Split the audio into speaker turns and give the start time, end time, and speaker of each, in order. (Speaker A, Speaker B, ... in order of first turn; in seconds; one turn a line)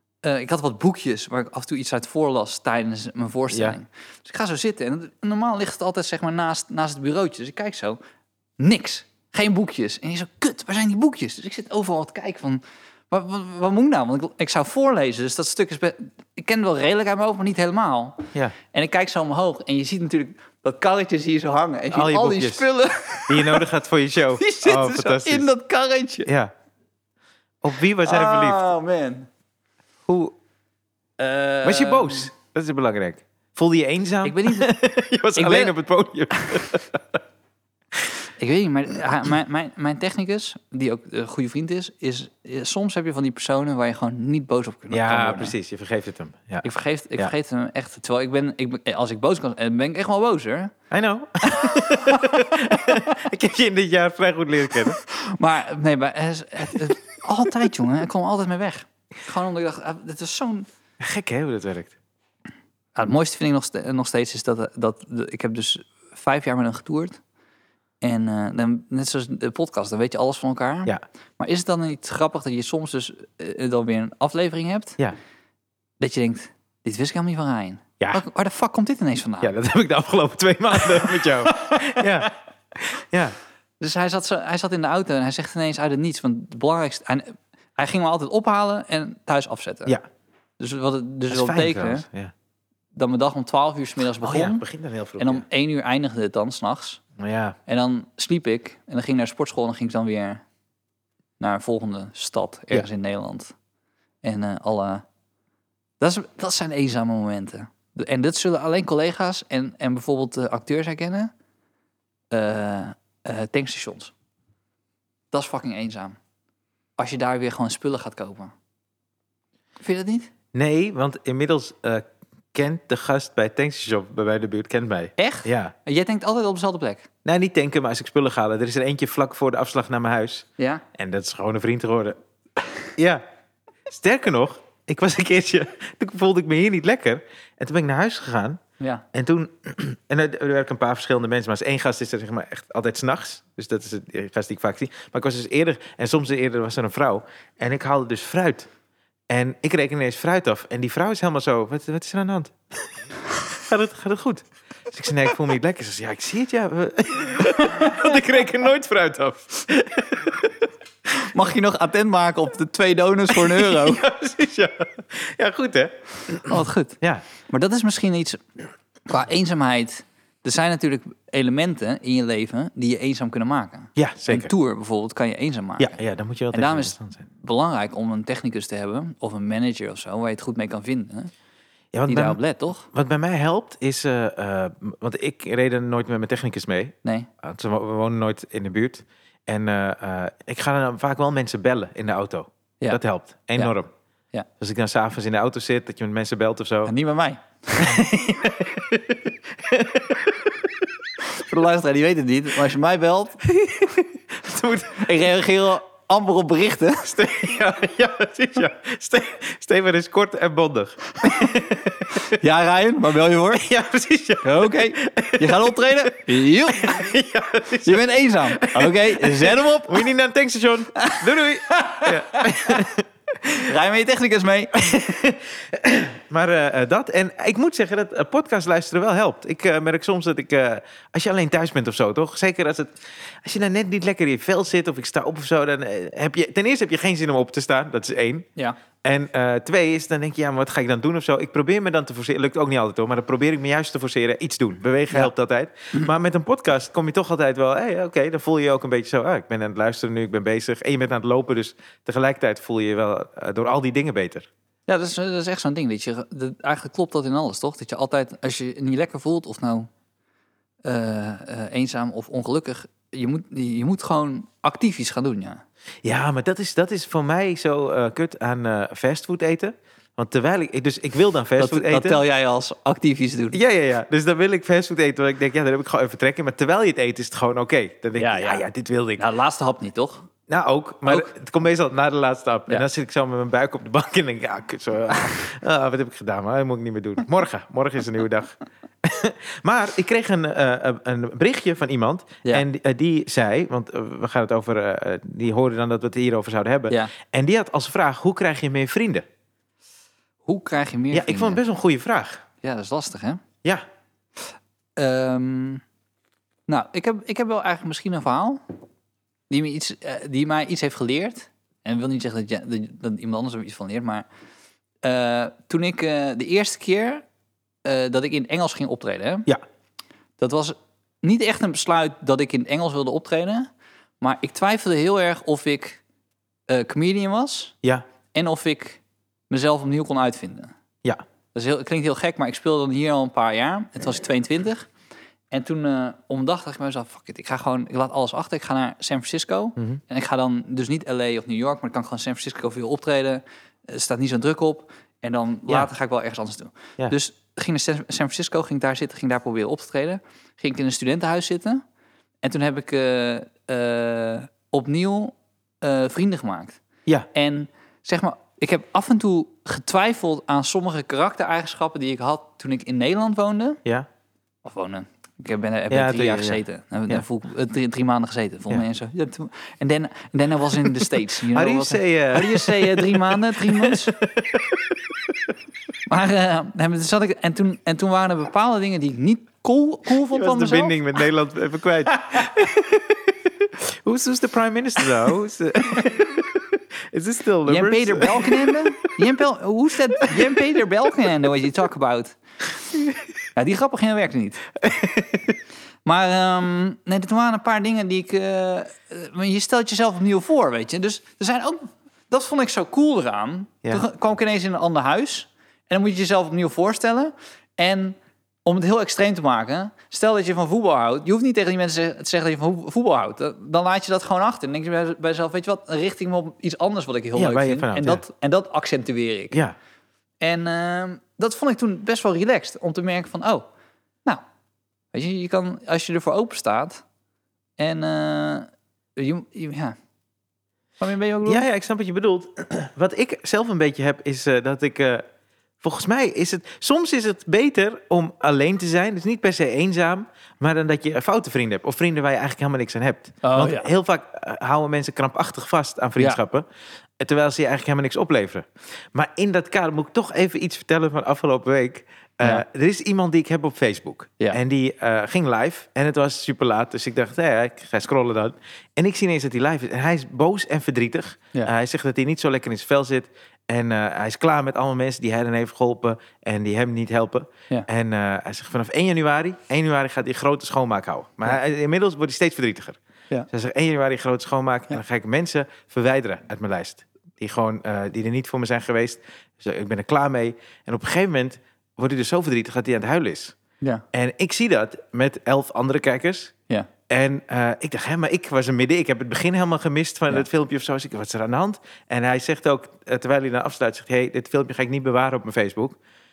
Speaker A: 0.2-8.0
Speaker B: 3.5-3.8
Speaker A: 8.6-23.6
Speaker B: 21.9-22.6
Speaker B: 23.3-25.5
Speaker A: 24.4-26.3
Speaker B: 26.2-26.5
Speaker B: 27.6-28.6
Speaker A: 28.0-29.3
Speaker B: 30.1-30.3
Speaker A: 31.2-32.3
Speaker B: 31.6-37.2
Speaker A: 34.2-34.7
Speaker A: 35.4-35.7
Speaker A: 36.3-36.6
Speaker A: 38.4-45.5
Speaker B: 44.9-46.6
Speaker A: 46.6-50.7
Speaker B: 50.9-55.0
Speaker A: 51.4-53.1
Speaker A: 55.0-60.7
Speaker B: 61.0-62.0
Speaker A: 63.0-67.2
Speaker A: 68.0-75.0
Speaker A: 76.0-79.5
Speaker B: 79.4-83.3
Speaker A: 81.5-82.0
Speaker A: 83.8-90.0
Speaker A: 90.6-92.0
Speaker B: 91.3-92.3
Speaker A: 92.9-94.6
Speaker B: 94.2-95.4
Speaker A: 95.2-97.0
Speaker B: 97.2-97.5
Speaker A: 97.7-100.4
Speaker A: 101.4-103.5
Speaker A: 104.2-105.0
Speaker A: 106.0-111.3
Speaker A: 112.3-114.1
Speaker A: 115.3-116.2
Speaker A: 117.0-118.5
Speaker A: 119.8-120.3
Speaker B: 120.5-125.7
Speaker A: 125.2-127.1
Speaker B: 127.2-132.2
Speaker A: 130.6-130.8
Speaker B: 133.0-133.2
Speaker B: 133.9-138.6
Speaker A: 138.8-139.0
Speaker B: 139.1-148.7
Speaker B: 149.3-152.8
Speaker B: 153.5-160.5
Speaker A: 157.6-157.9
Speaker A: 161.2-164.0
Speaker B: 163.3-167.2
Speaker A: 166.4-168.4
Speaker A: 169.1-176.0
Speaker B: 173.9-174.5
Speaker B: 175.8-177.2
Speaker A: 176.5-181.3
Speaker B: 181.9-182.4
Speaker A: 182.1-182.9
Speaker B: 182.9-193.9
Speaker A: 187.0-187.3
Speaker B: 194.6-196.9
Speaker A: 196.8-198.0
Speaker B: 197.8-200.9
Speaker A: 201.2-203.4
Speaker B: 203.4-205.1
Speaker A: 204.9-207.1
Speaker B: 207.0-212.2
Speaker A: 212.2-213.7
Speaker B: 213.5-216.1
Speaker A: 214.4-217.0
Speaker B: 216.7-223.1
Speaker A: 217.8-220.1
Speaker A: 221.0-222.8
Speaker A: 223.5-225.2
Speaker B: 224.9-238.5
Speaker B: 239.0-254.5
Speaker A: 254.9-259.9
Speaker A: 260.8-265.6
Speaker B: 266.0-272.2
Speaker A: 271.6-273.6
Speaker B: 273.5-279.2
Speaker A: 278.2-280.3
Speaker B: 280.5-299.2
Speaker A: 300.4-301.6
Speaker B: 301.1-302.4
Speaker A: 302.6-303.4
Speaker A: 305.0-305.8
Speaker A: 306.7-308.6
Speaker A: 309.5-314.2
Speaker A: 315.0-317.2
Speaker A: 317.8-319.5
Speaker A: 320.4-323.7
Speaker A: 324.2-326.0
Speaker A: 326.7-327.7
Speaker A: 328.3-330.7
Speaker A: 331.5-334.9
Speaker A: 335.5-351.8
Speaker A: 352.4-356.8
Speaker A: 357.3-363.8
Speaker A: 364.6-374.1
Speaker B: 365.9-367.2
Speaker B: 371.5-375.5
Speaker A: 376.1-381.0
Speaker B: 380.3-388.9
Speaker A: 382.1-382.5
Speaker A: 387.6-392.4
Speaker A: 393.5-394.6
Speaker B: 394.8-395.6
Speaker A: 396.0-419.6
Speaker B: 417.4-418.2
Speaker A: 420.4-423.6
Speaker A: 425.1-427.0
Speaker A: 427.8-429.9
Speaker A: 431.0-431.6
Speaker B: 431.4-435.2
Speaker B: 435.8-446.6
Speaker A: 443.4-443.9
Speaker B: 447.2-473.0
Speaker B: 473.5-483.6
Speaker B: 484.1-486.5
Speaker B: 487.1-496.0